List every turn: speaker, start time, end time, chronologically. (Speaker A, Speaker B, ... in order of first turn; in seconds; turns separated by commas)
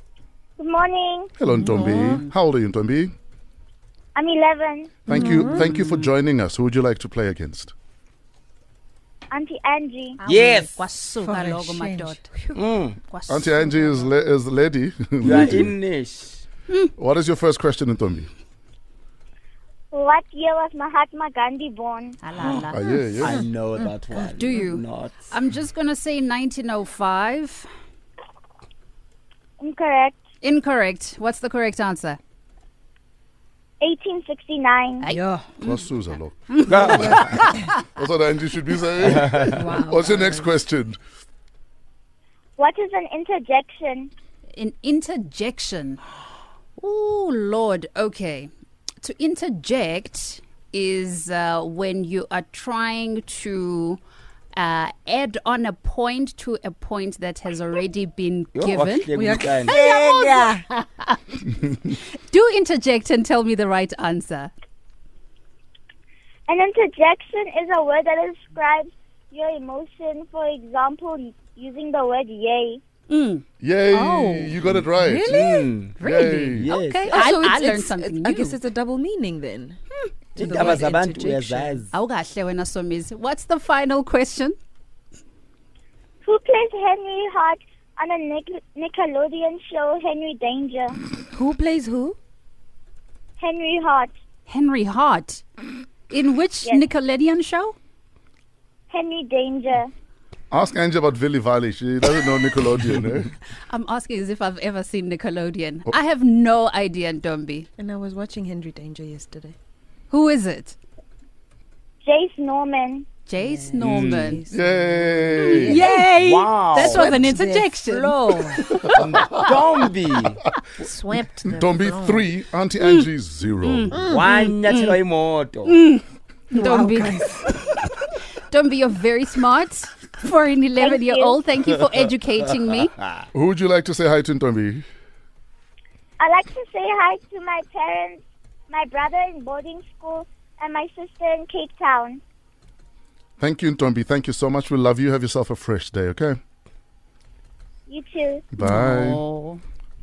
Speaker A: 0.6-1.3, Speaker B: 1.4-3.1, Speaker C: 1.5-2.2, Speaker D: 1.9-2.3, Speaker A: 4.1-5.0, Speaker B: 5.0-7.7, Speaker C: 5.1-5.7, Speaker D: 5.2-6.1, Speaker A: 9.3-10.2, Speaker D: 10.2-12.5, Speaker E: 10.2-10.8, Speaker C: 11.2-12.6, Speaker E: 12.5-13.0, Speaker D: 13.1-14.0, Speaker B: 13.3-15.7, Speaker E: 15.2-16.4, Speaker B: 17.0-18.3, Speaker A: 19.9-22.2, Speaker D: 22.2-22.8, Speaker B: 22.7-23.4, Speaker C: 22.8-23.9, Speaker E: 23.2-25.2, Speaker D: 24.3-27.7, Speaker A: 29.6-30.2, Speaker D: 30.4-32.2, Speaker A: 33.8-35.0, Speaker D: 35.0-35.8, Speaker C: 35.1-35.5, Speaker B: 35.6-36.7, Speaker D: 36.5-37.6, Speaker E: 36.7-37.4, Speaker C: 36.9-37.5, Speaker B: 37.9-41.0, Speaker E: 39.0-39.6, Speaker C: 39.5-40.5, Speaker A: 42.6-44.1, Speaker D: 44.5-46.0, Speaker D: 46.8-54.0, Speaker D: 54.5-59.1, Speaker E: 58.5-59.8, Speaker C: 59.1-60.6, Speaker D: 59.6-64.5, Speaker A: 66.5-72.8, Speaker D: 73.1-74.6, Speaker B: 73.6-75.4, Speaker C: 75.0-75.7, Speaker E: 75.3-76.0, Speaker D: 76.0-78.6, Speaker B: 76.0-76.7, Speaker E: 76.6-77.4, Speaker C: 77.1-79.8, Speaker C: 80.3-81.8, Speaker E: 80.3-81.9, Speaker D: 81.9-84.5, Speaker A: 86.2-91.0, Speaker C: 91.3-92.2, Speaker A: 93.4-94.1, Speaker D: 94.5-95.4, Speaker D: 96.1-97.8, Speaker A: 98.9-99.9, Speaker B: 100.5-103.3, Speaker D: 103.7-107.7, Speaker C: 107.8-109.6, Speaker D: 110.1-110.8, Speaker A: 112.0-113.1, Speaker D: 113.3-114.4, Speaker C: 113.4-118.8, Speaker E: 113.8-114.4, Speaker B: 114.5-115.9, Speaker D: 115.4-118.6, Speaker E: 116.2-117.2, Speaker E: 119.0-120.4, Speaker C: 120.8-122.3, Speaker B: 121.5-124.0, Speaker D: 122.8-123.1, Speaker D: 123.6-123.9, Speaker C: 123.9-124.5, Speaker E: 124.1-125.8, Speaker D: 124.7-125.0, Speaker D: 125.7-133.0, Speaker C: 126.5-127.6, Speaker A: 130.8-131.4, Speaker B: 133.3-134.8, Speaker A: 136.2-142.2, Speaker B: 143.4-146.4, Speaker A: 147.9-148.4, Speaker B: 148.5-149.2, Speaker D: 148.6-149.6